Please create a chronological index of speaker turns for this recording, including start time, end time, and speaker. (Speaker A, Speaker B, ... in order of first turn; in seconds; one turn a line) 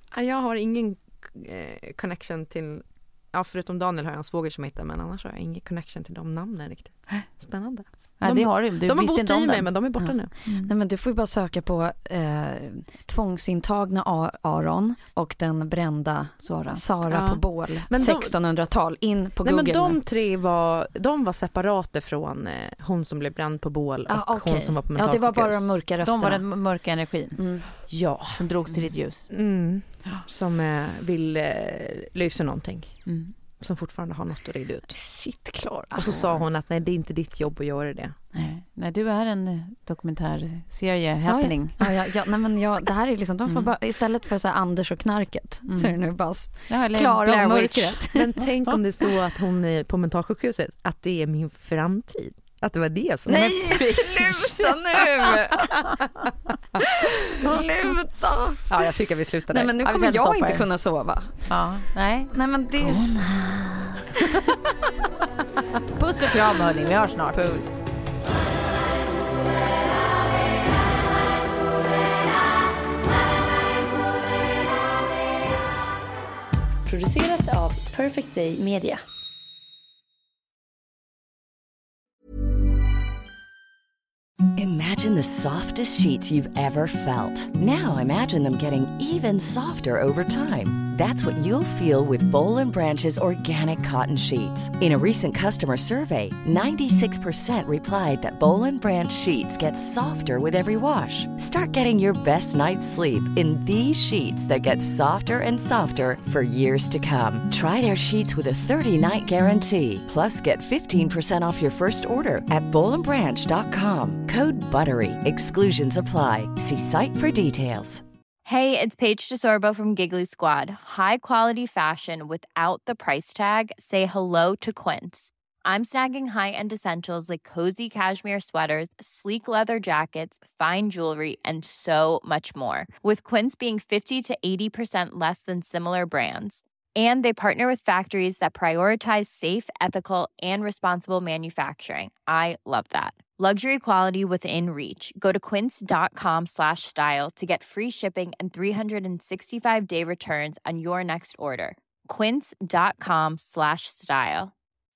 Speaker A: 0.1-10.3
Speaker B: 8.2-10.6
Speaker C: 10.5-20.0
Speaker B: 16.4-16.8
Speaker A: 17.1-18.4
Speaker A: 19.4-25.8
Speaker C: 24.1-26.4
Speaker B: 26.0-27.4
Speaker C: 27.4-27.7
Speaker A: 27.9-28.5
Speaker B: 28.4-29.3
Speaker A: 29.3-33.0
Speaker B: 33.1-33.3
Speaker A: 33.6-35.0
Speaker C: 35.0-36.1
Speaker A: 36.0-38.2
Speaker B: 36.1-36.4
Speaker B: 38.3-41.8
Speaker C: 41.3-48.3
Speaker B: 45.7-46.0
Speaker B: 46.7-48.0
Speaker A: 48.1-54.8
Speaker C: 53.3-55.7
Speaker C: 57.2-58.7
Speaker A: 57.4-57.6
Speaker A: 58.7-60.6
Speaker C: 59.5-61.5
Speaker B: 61.5-64.0
Speaker C: 62.3-63.1
Speaker B: 66.0-67.6
Speaker D: 76.9-79.0
Speaker E: 84.6-118.0
Speaker F: 118.5-154.5